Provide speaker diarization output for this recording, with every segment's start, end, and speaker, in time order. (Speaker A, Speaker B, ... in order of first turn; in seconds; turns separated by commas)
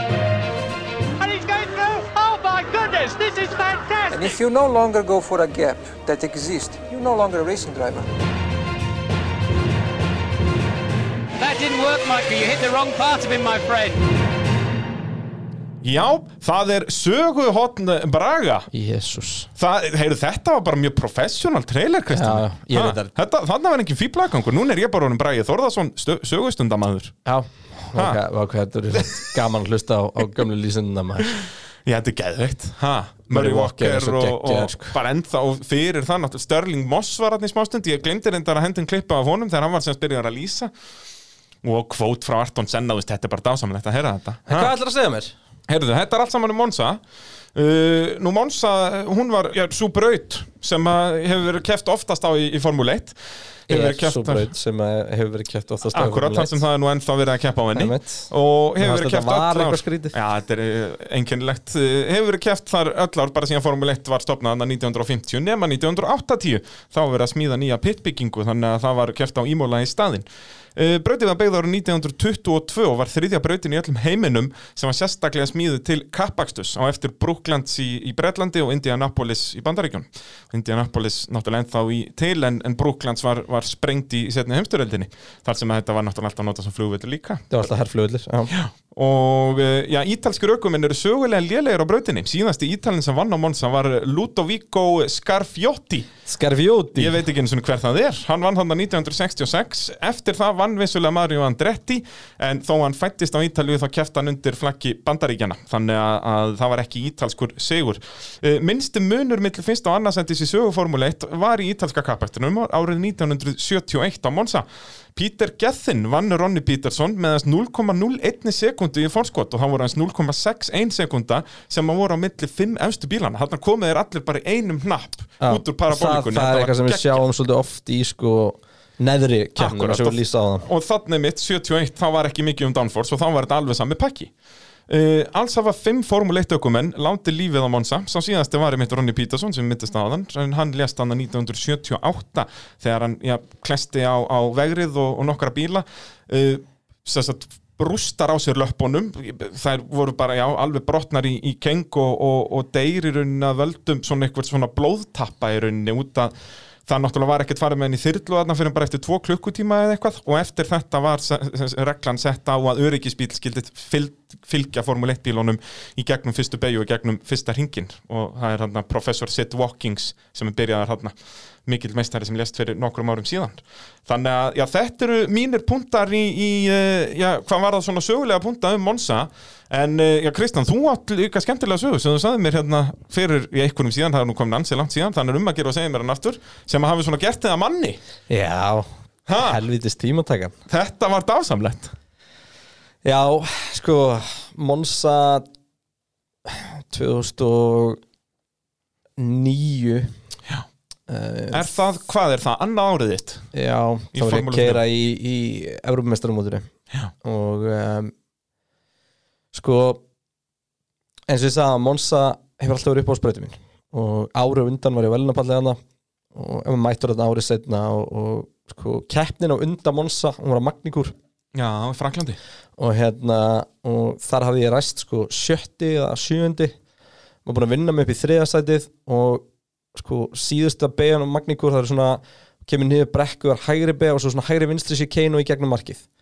Speaker A: 1.2-4.4, Speaker B: 4.1-8.1, Speaker A: 11.4-14.0, Speaker C: 15.8-18.7, Speaker D: 18.7-19.5, Speaker C: 19.6-27.1, Speaker D: 22.1-23.1, Speaker D: 27.2-31.3, Speaker C: 28.9-29.2, Speaker C: 31.8-40.7, Speaker D: 33.3-35.0, Speaker C: 41.6-44.7, Speaker D: 44.5-45.3, Speaker C: 45.7-47.0, Speaker C: 47.5-54.5, Speaker D: 53.7-56.6, Speaker C: 55.9-87.5, Speaker D: 57.7-60.2, Speaker D: 87.5-88.5, Speaker C: 88.5-96.1, Speaker D: 96.3-97.2, Speaker C: 96.9-127.2, Speaker D: 125.4-130.7, Speaker C: 129.6-134.3, Speaker C: 134.9-156.3, Speaker C: 156.9-188.0, Speaker D: 188.3-190.5, Speaker C: 189.3-189.6, Speaker C: 190.7-191.9, Speaker D: 193.0-195.4, Speaker D: 196.4-198.0, Speaker D: 199.2-200.1, Speaker D: 201.1-201.7, Speaker C: 201.5-203.5, Speaker D: 203.5-206.7, Speaker C: 204.1-204.8, Speaker D: 207.2-208.1, Speaker D: 209.5-210.0, Speaker D: 211.3-215.8, Speaker D: 216.3-221.1, Speaker C: 221.5-222.4, Speaker D: 222.8-226.7, Speaker D: 227.4-236.0